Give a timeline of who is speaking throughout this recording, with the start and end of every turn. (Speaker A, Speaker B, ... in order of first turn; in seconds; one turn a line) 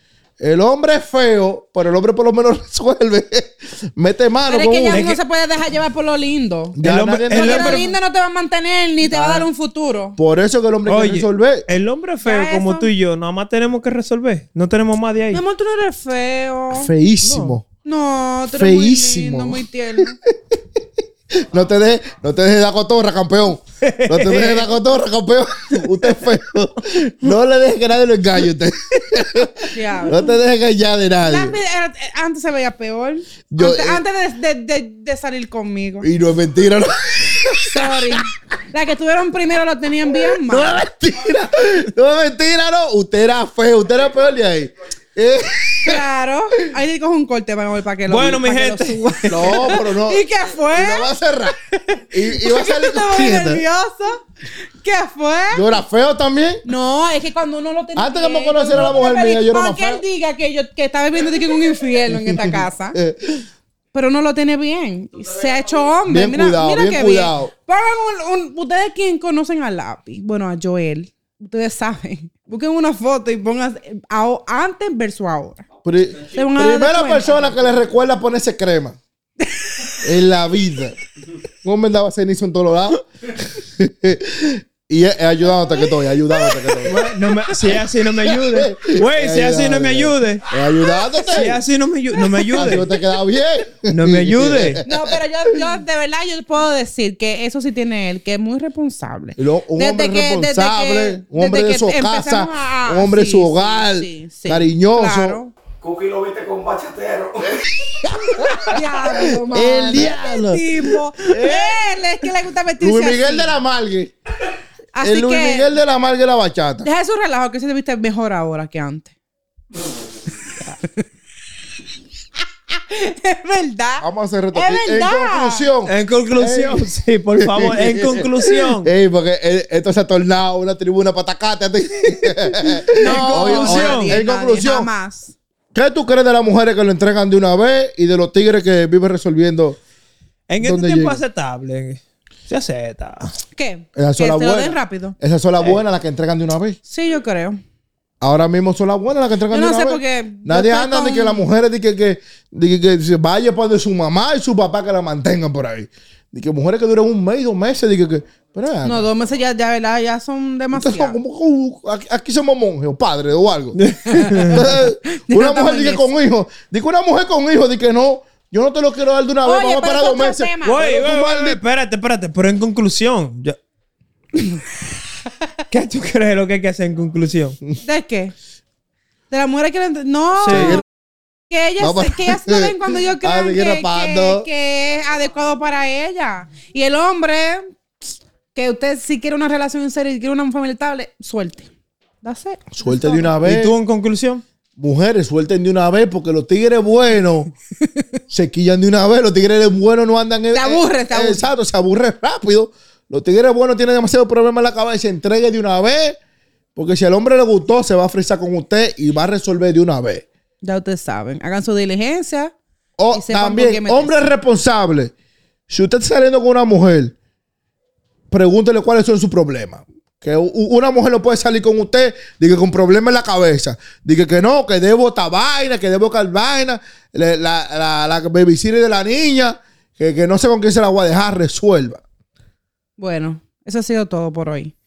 Speaker A: 0.4-5.1
Speaker B: 4.5-6.8
Speaker C: 4.9-5.2
Speaker A: 6.8-7.8
Speaker C: 6.8-7.9
Speaker B: 7.3-10.2
Speaker C: 9.1-9.5
Speaker A: 10.2-11.7
Speaker C: 10.9-15.4
Speaker B: 12.2-12.9
Speaker B: 15.3-16.9
Speaker A: 16.7-17.6
Speaker C: 17.2-17.6
Speaker B: 17.9-20.2
Speaker A: 18.6-20.3
Speaker A: 21.3-31.6
Speaker C: 23.8-24.7
Speaker B: 29.7-30.4
Speaker B: 31.2-36.1
Speaker A: 33.5-34.0
Speaker A: 36.0-38.2
Speaker B: 37.7-40.8
Speaker A: 40.1-46.0
Speaker B: 45.8-51.1
Speaker C: 48.1-49.5
Speaker A: 49.3-51.6
Speaker B: 51.7-54.2
Speaker A: 52.1-53.6
Speaker B: 54.8-55.8
Speaker A: 55.5-56.6
Speaker B: 56.6-63.0
Speaker A: 58.0-60.0
Speaker A: 62.1-63.5
Speaker B: 63.9-75.7
Speaker D: 65.2-65.9
Speaker A: 66.1-67.5
Speaker A: 75.8-79.0
Speaker B: 76.3-77.8
Speaker B: 79.4-79.8
Speaker A: 80.0-81.0
Speaker A: 81.6-91.6
Speaker B: 85.8-86.6
Speaker C: 86.8-90.4
Speaker B: 90.8-91.5
Speaker C: 91.3-92.8
Speaker B: 92.2-93.0
Speaker A: 92.5-95.1
Speaker C: 93.9-94.8
Speaker B: 94.8-105.5
Speaker A: 99.4-105.4
Speaker D: 105.8-107.7
Speaker A: 107.8-111.8
Speaker B: 108.6-113.5
Speaker A: 112.8-114.1
Speaker B: 114.9-115.7
Speaker A: 115.0-116.9
Speaker B: 116.8-119.1
Speaker B: 122.7-125.7
Speaker A: 124.0-134.9
Speaker C: 125.9-128.9
Speaker B: 132.9-135.3
Speaker C: 133.0-134.2
Speaker A: 135.7-139.8
Speaker C: 140.5-143.3
Speaker A: 140.6-141.2
Speaker B: 143.5-145.2
Speaker A: 144.0-146.8
Speaker B: 146.9-147.6
Speaker A: 148.2-159.1
Speaker B: 149.5-151.5
Speaker B: 158.8-161.2
Speaker A: 160.7-163.8
Speaker C: 163.8-164.7
Speaker B: 164.1-166.1
Speaker A: 164.4-171.6
Speaker B: 169.4-170.8
Speaker C: 170.6-173.6
Speaker C: 175.7-177.6
Speaker B: 177.8-178.3
Speaker B: 179.3-180.8
Speaker C: 180.4-180.8
Speaker A: 180.5-180.8
Speaker B: 181.5-187.7
Speaker A: 181.8-184.5
Speaker B: 188.6-191.7
Speaker B: 192.2-193.4
Speaker A: 192.8-193.8
Speaker C: 193.4-194.4
Speaker A: 194.8-197.5
Speaker A: 198.3-206.2
Speaker B: 200.5-201.5
Speaker A: 206.8-210.3
Speaker B: 210.6-212.5
Speaker A: 213.0-215.1
Speaker B: 213.1-214.3
Speaker A: 215.7-217.2
Speaker A: 218.3-232.0
Speaker B: 233.0-234.7